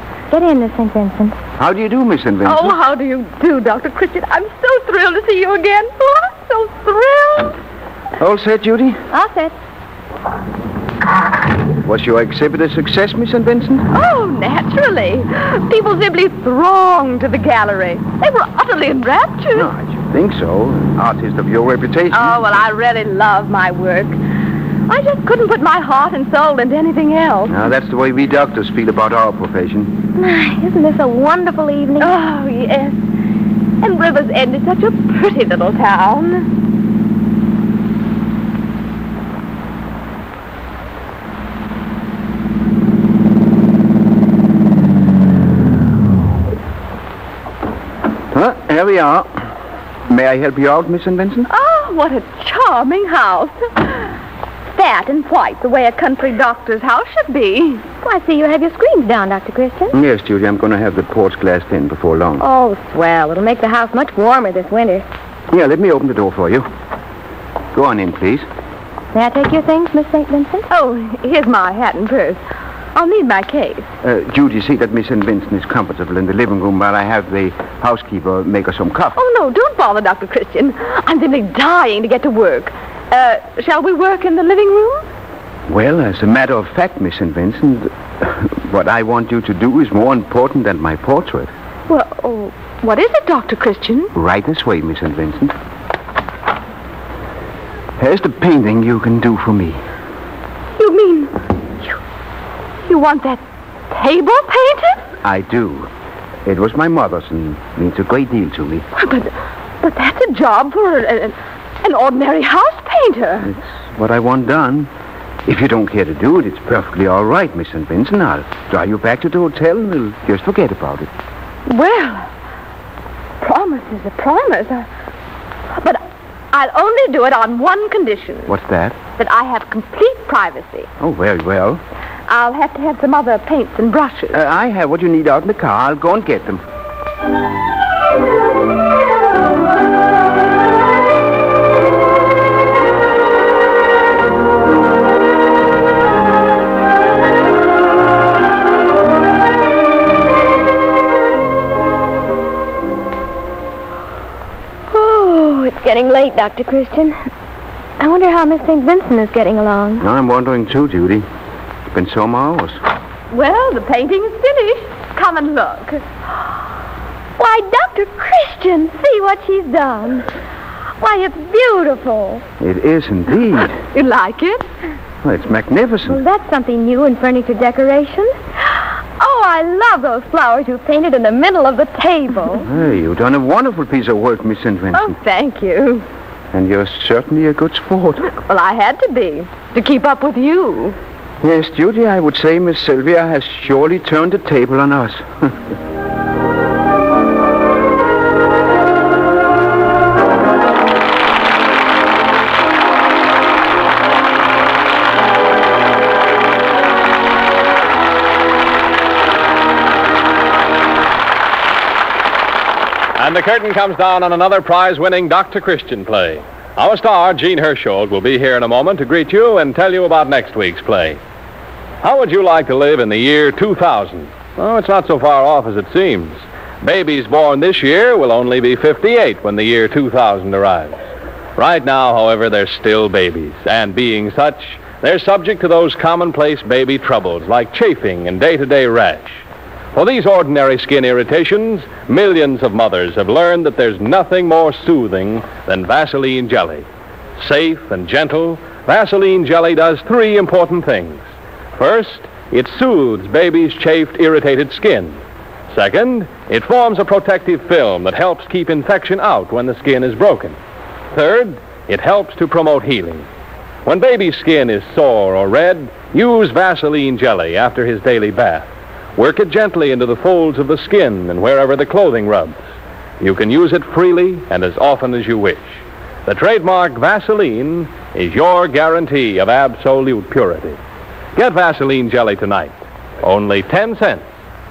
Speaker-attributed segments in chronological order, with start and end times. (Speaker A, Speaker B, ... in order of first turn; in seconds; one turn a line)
Speaker A: 0.3-1.4
Speaker B: 1.6-2.7
Speaker C: 2.4-7.6
Speaker B: 8.2-9.0
Speaker A: 9.1-9.5
Speaker B: 11.8-13.9
Speaker C: 13.9-19.7
Speaker B: 19.5-22.4
Speaker C: 22.1-24.2
Speaker C: 24.9-27.6
Speaker B: 27.5-29.9
Speaker A: 30.1-32.1
Speaker C: 32.0-33.0
Speaker C: 33.8-36.5
Speaker B: 48.3-49.5
Speaker B: 50.1-51.5
Speaker C: 51.5-54.1
Speaker C: 54.7-57.8
Speaker A: 58.0-60.0
Speaker B: 59.9-62.4
Speaker A: 62.4-65.0
Speaker B: 65.5-66.7
Speaker B: 67.7-68.5
Speaker A: 69.1-70.7
Speaker C: 70.7-72.4
Speaker C: 72.9-73.9
Speaker B: 74.0-79.2
Speaker C: 79.2-85.0
Speaker B: 85.7-91.5
Speaker C: 91.9-94.1
Speaker B: 94.1-95.5
Speaker B: 98.0-99.8
Speaker C: 100.8-102.0
Speaker C: 102.8-105.0
Speaker B: 105.2-105.9
Speaker B: 106.4-108.9
Speaker C: 108.9-113.5
Speaker B: 113.4-114.9
Speaker B: 115.5-121.1
Speaker C: 121.7-122.3
Speaker C: 123.4-124.9
Speaker C: 125.8-128.5
Speaker B: 128.5-129.0
Speaker C: 129.2-130.9
Speaker B: 131.0-131.8
Speaker C: 132.3-134.4
Speaker B: 134.3-136.6
Speaker A: 154.9-157.3
Speaker A: 158.0-160.1
Speaker B: 160.0-161.2
Speaker B: 161.9-162.8
Speaker C: 163.3-166.0
Speaker A: 167.4-170.3
Speaker A: 171.0-172.4
Speaker B: 172.6-173.8
Speaker C: 173.9-174.7
Speaker B: 175.2-176.2
Speaker A: 176.1-182.7
Speaker B: 182.7-185.1
Speaker C: 184.9-186.1
Speaker B: 186.5-188.3
Speaker C: 188.3-191.0
Speaker B: 191.4-195.6
Speaker D: 213.2-221.2
Speaker D: 222.0-231.0
Speaker D: 231.6-246.8
Speaker D: 247.4-251.2
Speaker D: 251.8-255.2
Speaker D: 255.7-260.6
Speaker D: 261.1-263.2
Speaker D: 263.8-272.6
Speaker D: 273.2-280.8
Speaker D: 281.3-284.2